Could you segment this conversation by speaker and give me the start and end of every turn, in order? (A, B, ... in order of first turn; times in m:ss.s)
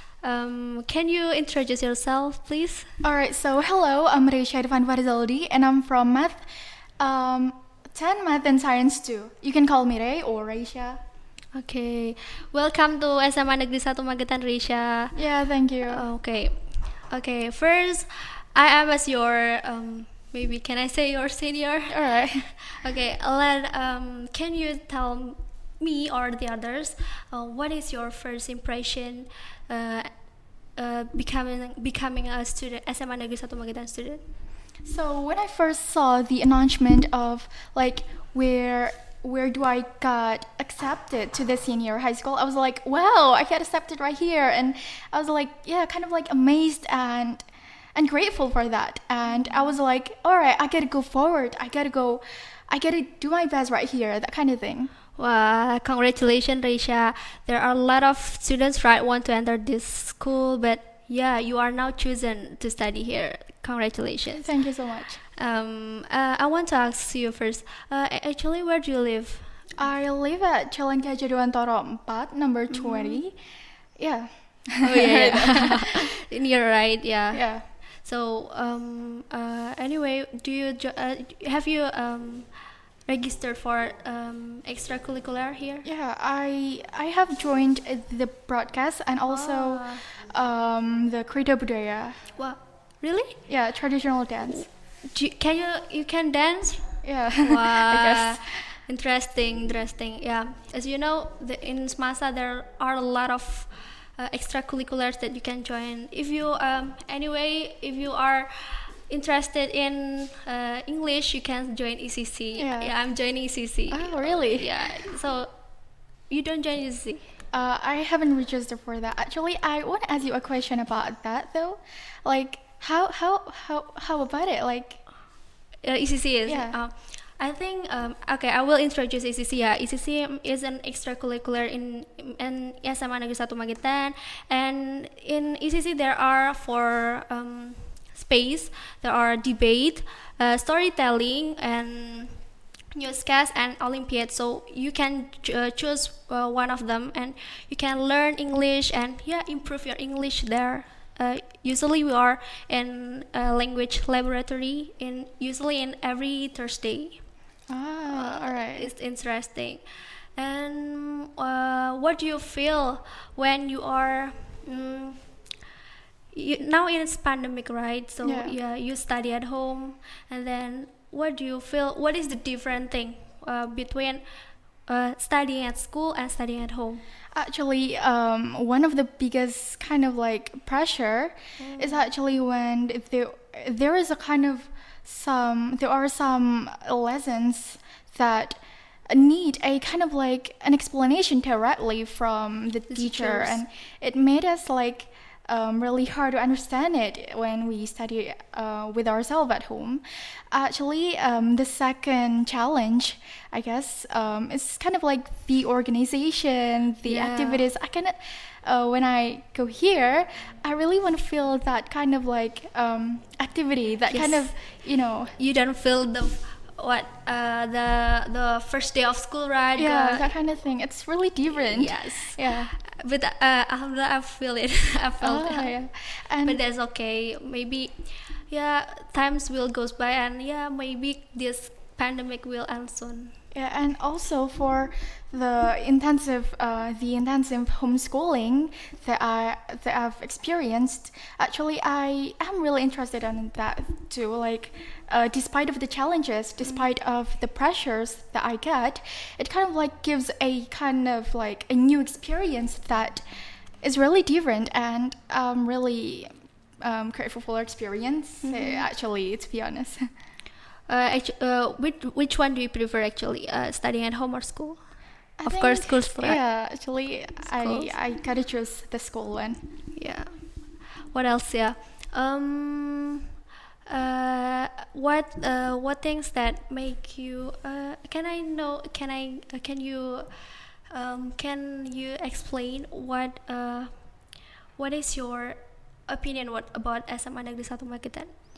0:00.2-0:02.9 A
0:03.0-0:06.4 B
0:07.0-0:11.0 B
0:11.5-0:15.2 A
0:15.2-0:16.0 B
0:15.9-0:34.2 A
0:21.9-0:22.5 B
0:34.8-0:54.9 B
0:49.2-0:49.7 A
0:55.2-1:04.5 A
1:04.4-1:05.2 B
1:05.4-1:09.5 A
1:09.8-1:13.3 B
1:12.7-1:13.2 A
1:14.0-1:16.0 B
1:14.8-1:22.5 A
1:17.3-1:17.6 B
1:23.0-1:25.8 A
1:25.8-1:32.2 B
1:29.3-1:30.0 A
1:32.4-1:33.4 A
1:33.5-1:34.6 B
1:34.5-1:55.5 A
1:37.0-1:38.5 B
1:52.6-1:52.9 B
1:53.9-1:54.7 B
1:56.3-1:57.3 A
1:57.5-2:05.0 B
2:05.8-2:37.2 A
2:06.4-2:06.8 B
2:37.7-2:38.9 B
2:38.1-2:39.8 A
2:40.3-2:45.3 A
2:46.3-2:54.2 A
2:48.2-2:48.6 B
2:54.8-2:57.0 A
2:57.3-3:35.4 B
3:01.6-3:02.0 A
3:12.9-3:13.6 A
3:27.0-3:27.6 A
3:34.1-3:34.6 A
3:35.4-3:40.4 A
3:39.8-3:42.7 B
3:41.6-3:45.9 A
3:45.2-3:46.6 B
3:46.4-3:53.4 A
3:53.5-4:13.2 B
4:13.8-4:20.1 B
4:18.4-4:18.9 A
4:20.9-4:26.4 A
4:25.4-4:29.6 B
4:27.5-4:27.9 A
4:29.9-4:33.2 A
4:33.8-4:48.3 A